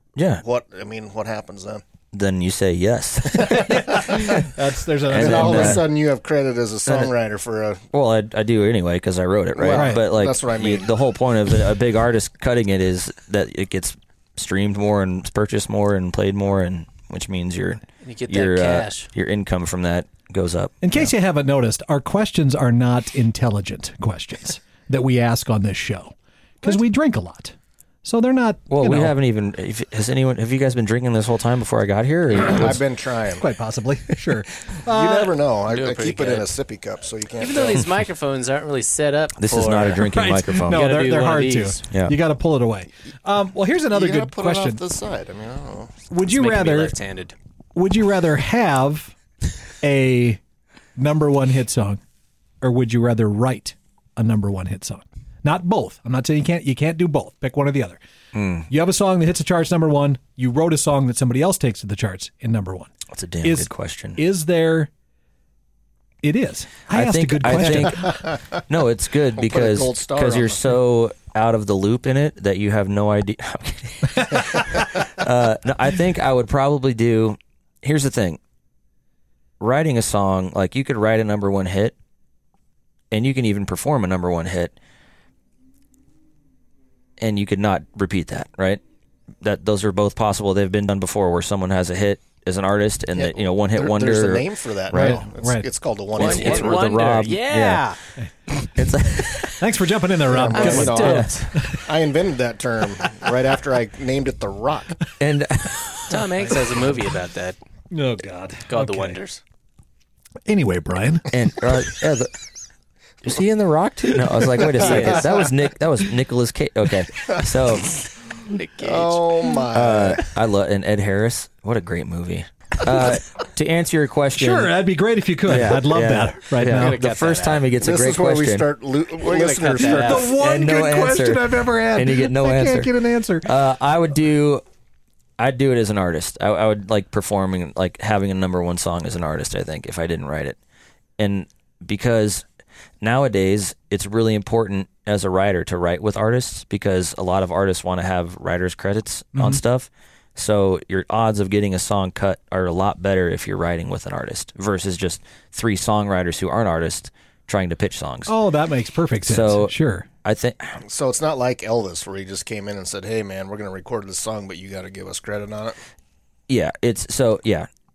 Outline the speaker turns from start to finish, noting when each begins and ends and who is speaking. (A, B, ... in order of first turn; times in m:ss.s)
0:00.2-0:00.4 A
0:00.4-0:01.8 B
0:02.1-0:04.4 A
0:03.4-0:04.2 B
0:03.5-0:05.9 C
0:05.1-0:05.9 A
0:05.1-0:07.9 B
0:06.9-0:07.1 A
0:07.9-0:21.1 A
0:09.5-0:10.9 B
0:09.7-0:10.0 C
0:18.0-0:19.1 D
0:20.8-0:29.2 C
0:28.7-0:32.8 A
0:32.6-0:33.4 B
0:33.3-0:35.4 C
0:34.9-0:37.8 B
0:35.7-0:36.5 D
0:37.4-0:40.0 D
0:39.4-0:41.0 A
0:40.0-0:44.8 C
0:40.6-0:41.8 D
0:41.9-0:42.2 A
0:43.9-0:45.9 B
0:46.1-0:46.9 C
0:46.3-0:47.3 D
0:47.7-0:49.1 C
0:49.8-0:50.4 C
0:51.0-0:52.0 C
0:52.6-0:58.0 C
0:58.3-0:58.7 A
0:58.7-1:02.9 C
1:03.1-1:04.2 A
1:03.4-1:04.9 C
1:06.2-1:08.1 C
1:06.9-1:08.1 A
1:07.5-1:08.4 B
1:08.7-1:18.4 A
1:09.3-1:10.7 B
1:19.6-1:21.9 A
1:23.1-1:24.7 A
1:27.2-1:28.8 A
1:29.4-1:35.2 A
1:33.1-1:36.9 B
1:34.9-1:35.7 C
1:36.1-1:38.0 D
1:36.2-1:37.9 A
1:38.7-1:39.6 A
1:39.6-1:41.8 C
1:40.3-1:45.0 B
1:40.5-1:41.6 D
1:40.9-1:41.5 A
1:45.2-1:46.2 A
1:46.1-1:47.6 D
1:47.9-1:49.2 C
1:48.7-1:49.4 D
1:50.4-1:51.4 C
1:51.3-1:52.3 A
1:53.2-1:58.0 A
1:54.8-1:55.3 B
1:58.5-1:59.2 D
1:58.8-2:00.2 B
1:59.7-2:04.8 A
2:04.4-2:07.0 C
2:05.4-2:08.7 A
2:06.7-2:07.7 D
2:07.8-2:10.3 B
2:09.2-2:10.4 D
2:09.8-2:13.5 C
2:10.3-2:14.6 A
2:15.4-2:20.6 A
2:21.2-2:22.4 A
2:23.0-2:38.3 A
2:29.3-2:29.6 C
2:38.2-2:40.1 C
2:39.2-2:40.8 A
2:40.8-2:45.8 B
2:46.5-2:47.7 A